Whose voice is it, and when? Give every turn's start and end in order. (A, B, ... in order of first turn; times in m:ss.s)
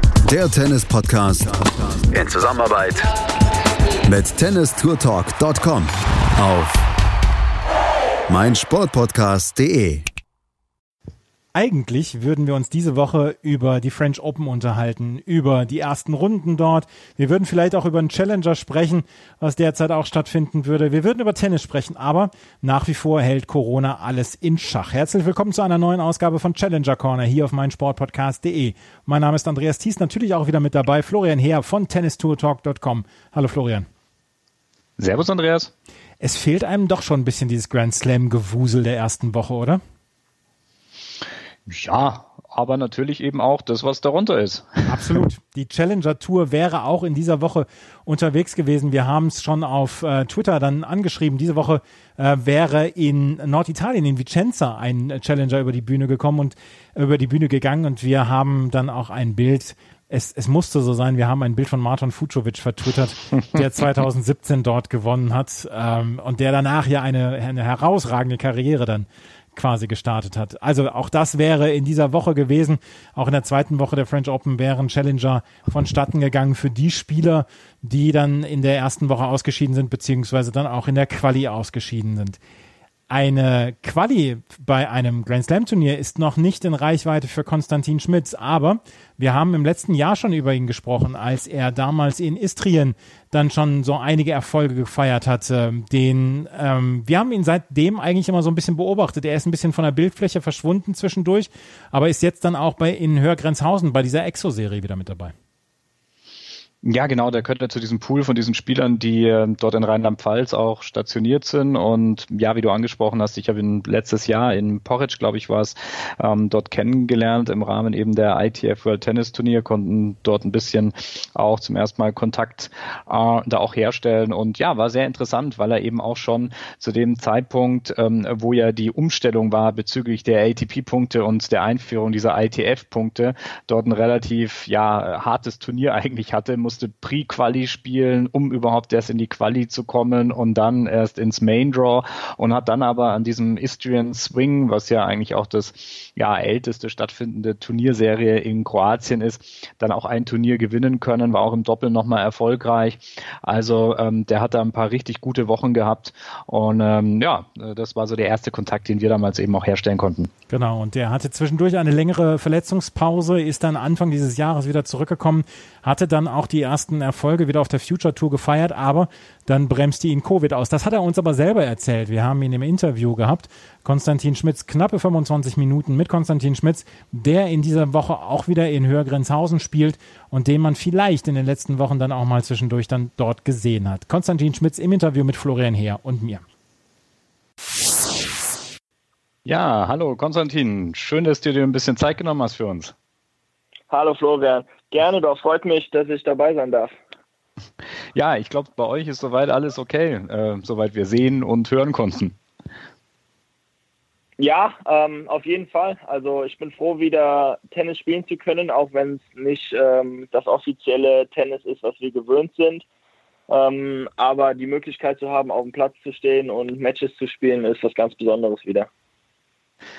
0:00.2-0:03.1 A
0:04.1-0:06.8 A
0:08.3-0:10.1 A
0:11.6-0:33.9 B
0:35.0-0:35.7 C
0:36.2-0:39.8 B
0:41.7-0:45.2 C
0:44.9-1:22.4 B
1:23.1-1:45.3 B
1:46.8-2:40.3 C
2:40.5-3:06.4 B
3:09.5-3:12.9 C
3:13.9-3:17.0 D
3:18.1-3:22.4 C
3:24.4-3:32.8 D
3:33.5-3:38.9 D